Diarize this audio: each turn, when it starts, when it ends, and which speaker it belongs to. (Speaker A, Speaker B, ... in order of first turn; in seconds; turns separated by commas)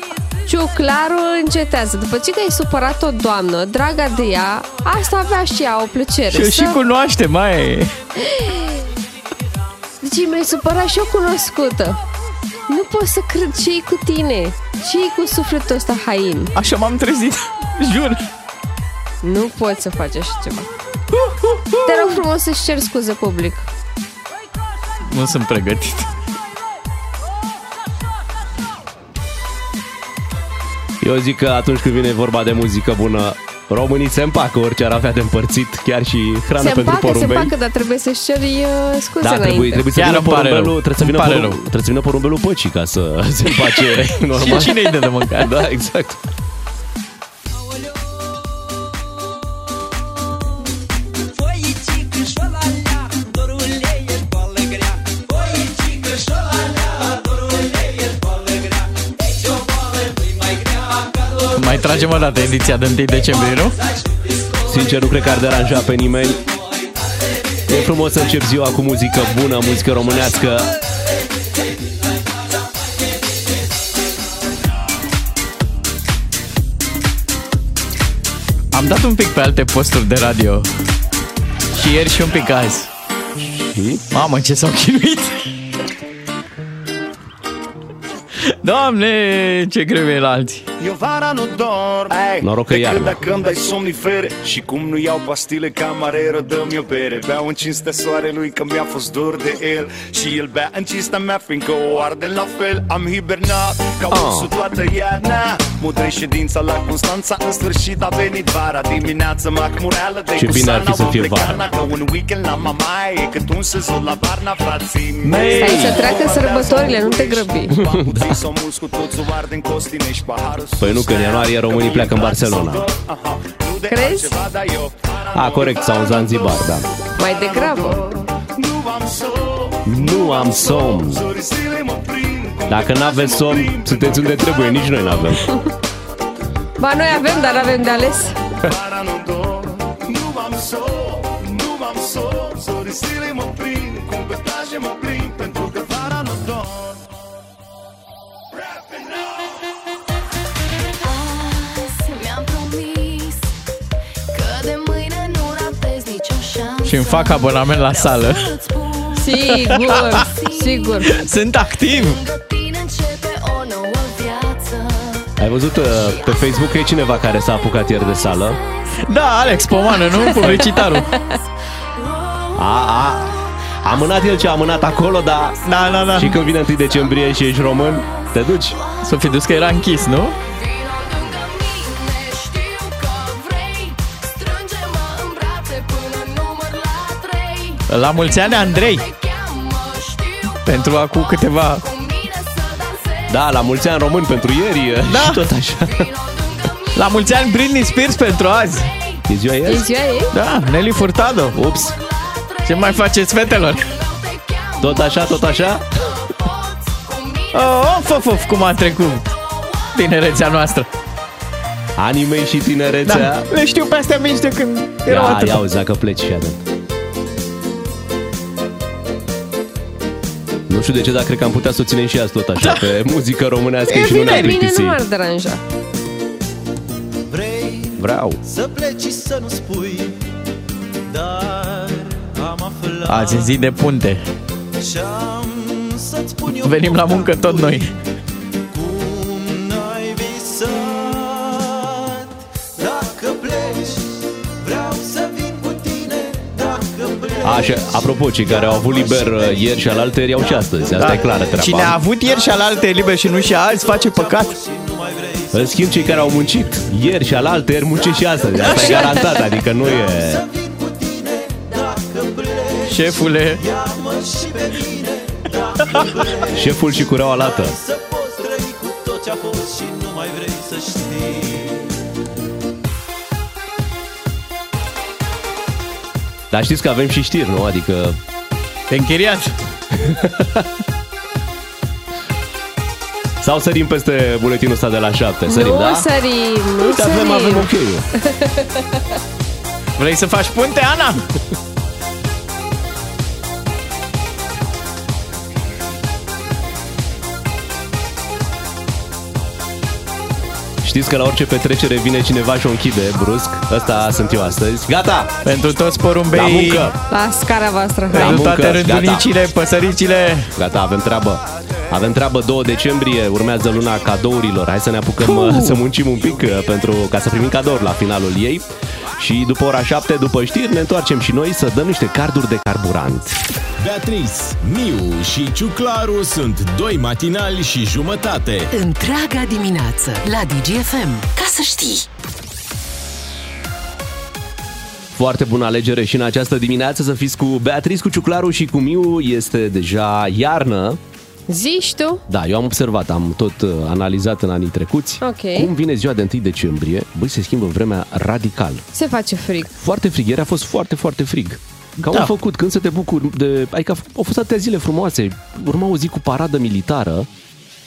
Speaker A: 0.5-6.8, Speaker B: 6.3-8.0, Speaker A: 8.2-8.8, Speaker A: 10.0-12.0, Speaker A: 12.7-16.5, Speaker B: 16.6-18.2, Speaker A: 19.2-20.7, Speaker B: 21.1-22.2, Speaker A: 21.9-23.7, Speaker B: 25.1-26.1, Speaker C: 31.0-37.5, Speaker A: 36.6-39.9, Speaker C: 39.2-46.2, Speaker B: 40.0-41.6, Speaker B: 43.8-45.6, Speaker D: 51.7-58.7, Speaker D: 59.5-61.3, Speaker B: 61.5-63.8, Speaker C: 64.7-66.4, Speaker C: 67.7-70.7, Speaker B: 78.7-80.7, Speaker B: 81.7-82.9, Speaker C: 83.5-84.0, Speaker B: 84.1-85.5, Speaker B: 88.6-90.7, Speaker E: 90.8-135.4, Speaker C: 92.4-93.2, Speaker C: 104.1-104.5, Speaker C: 110.3-111.7, Speaker C: 115.2-116.5, Speaker A: 115.5-117.8, Speaker C: 117.7-118.4, Speaker C: 120.8-122.9, Speaker A: 123.9-124.3, Speaker C: 125.3-126.9, Speaker A: 127.2-128.1, Speaker C: 129.9-131.2, Speaker C: 132.7-135.5, Speaker A: 136.8-138.4, Speaker E: 137.1-147.0, Speaker E: 148.7-149.1, Speaker F: 151.0-153.5, Speaker F: 154.3-165.3, Speaker B: 156.8-158.5, Speaker A: 159.2-161.1, Speaker B: 159.4-160.2, Speaker B: 161.1-162.2, Speaker C: 165.4-168.6, Speaker F: 165.9-179.6, Speaker B: 169.0-171.1, Speaker C: 170.4-170.8, Speaker C: 172.6-175.6, Speaker B: 175.6-176.4, Speaker C: 176.1-178.8, Speaker B: 179.0-180.4, Speaker F: 180.4-194.1, Speaker B: 187.9-189.1, Speaker B: 190.6-191.8, Speaker C: 193.3-196.1, Speaker B: 195.1-195.4, Speaker F: 195.8-199.3, Speaker B: 196.9-198.9, Speaker C: 199.3-199.9, Speaker A: 199.7-200.3, Speaker F: 200.1-210.3, Speaker B: 200.3-201.6, Speaker C: 201.5-202.0, Speaker B: 202.7-203.9, Speaker C: 204.8-206.1, Speaker B: 207.5-209.3, Speaker B: 209.9-210.9, Speaker C: 212.0-213.5, Speaker B: 213.0-215.7, Speaker C: 215.1-216.6, Speaker C: 220.7-225.0, Speaker B: 222.6-222.9, Speaker A: 223.9-225.6, Speaker D: 227.3-230.2, Speaker C: 228.0-228.4, Speaker D: 231.1-233.6, Speaker B: 233.1-234.2, Speaker D: 234.8-237.9, Speaker B: 236.6-237.9, Speaker D: 238.7-251.6, Speaker C: 247.4-252.0, Speaker B: 251.0-254.6, Speaker D: 252.3-256.4, Speaker C: 255.5-260.4, Speaker B: 258.6-259.4, Speaker D: 258.6-271.8, Speaker B: 262.9-263.6, Speaker C: 266.5-267.8, Speaker C: 276.5-278.2, Speaker B: 278.9-279.6, Speaker C: 279.9-280.7, Speaker C: 283.4-286.1, Speaker A: 285.5-287.7, Speaker C: 286.8-288.1, Speaker A: 288.2-289.0, Speaker B: 290.0-291.2, Speaker C: 300.8-305.3, Speaker B: 305.4-306.9, Speaker C: 306.3-306.9, Speaker A: 307.1-308.4, Speaker C: 308.1-309.3, Speaker B: 308.1-310.5, Speaker C: 310.6-323.4, Speaker B: 315.2-315.8, Speaker G: 323.8-328.7, Speaker H: 328.7-332.1, Speaker C: 335.2-341.0, Speaker A: 341.5-342.2, Speaker C: 342.3-348.9, Speaker A: 345.2-345.7, Speaker A: 348.9-349.7, Speaker C: 349.8-357.3, Speaker B: 352.1-352.3